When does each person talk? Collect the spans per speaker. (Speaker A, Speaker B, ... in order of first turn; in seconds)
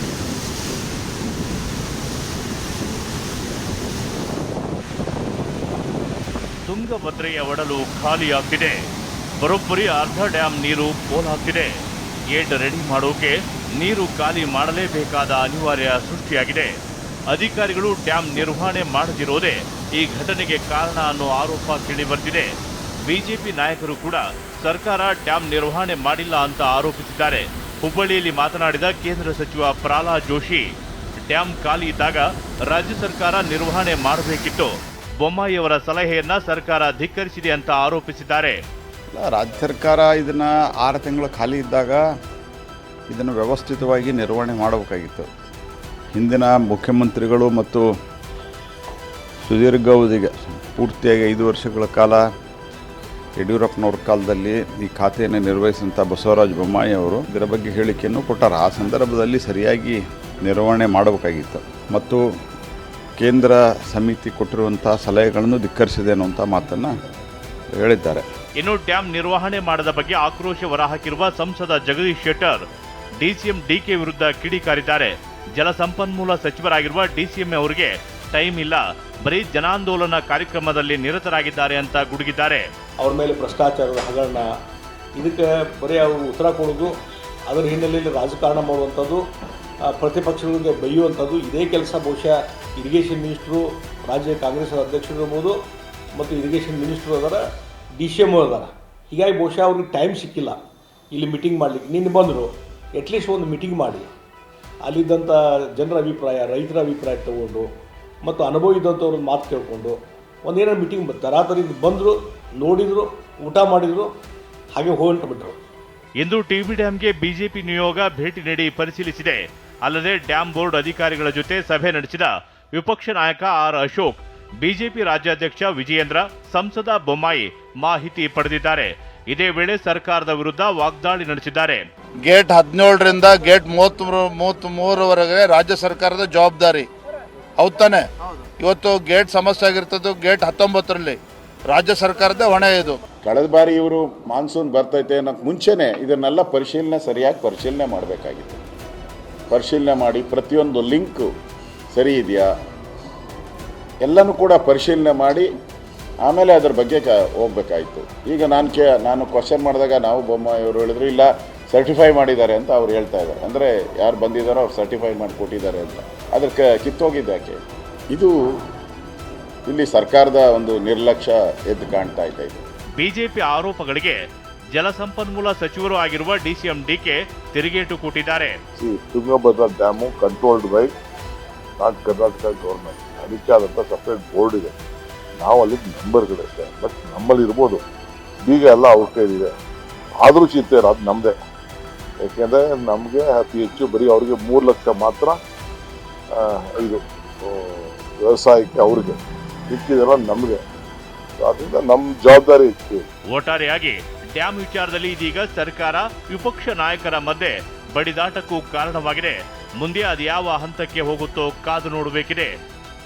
Speaker A: 6.7-8.8, 9.4-11.7, 12.3-16.7, 17.3-22.5, 23.0-30.6, 31.3-38.6, 68.6-72.6, 73.2-82.6, 116.2-131.8, 173.0-174.2, 174.7-178.6, 203.3-212.5
Speaker B: 39.1-42.0, 43.1-45.3, 46.1-47.8, 49.4-52.2, 53.4-62.2, 63.2-66.9, 67.7-68.2
Speaker C: 83.0-84.5, 85.2-86.9, 87.5-89.2, 89.9-95.5, 96.1-97.4, 98.0-100.6, 101.1-104.1, 104.8-107.7, 108.2-114.1, 114.7-115.5
Speaker D: 132.2-136.9, 137.6-138.1, 138.6-141.2, 141.7-143.0
Speaker E: 143.2-148.6, 149.5-151.3, 151.9-152.5, 154.0-155.5, 156.2-168.3, 169.7-172.6
Speaker F: 178.8-180.9, 181.8-184.8, 185.4-187.8, 188.4-189.5, 190.2-191.3, 192.2-195.4, 196.3-200.6, 201.4-203.1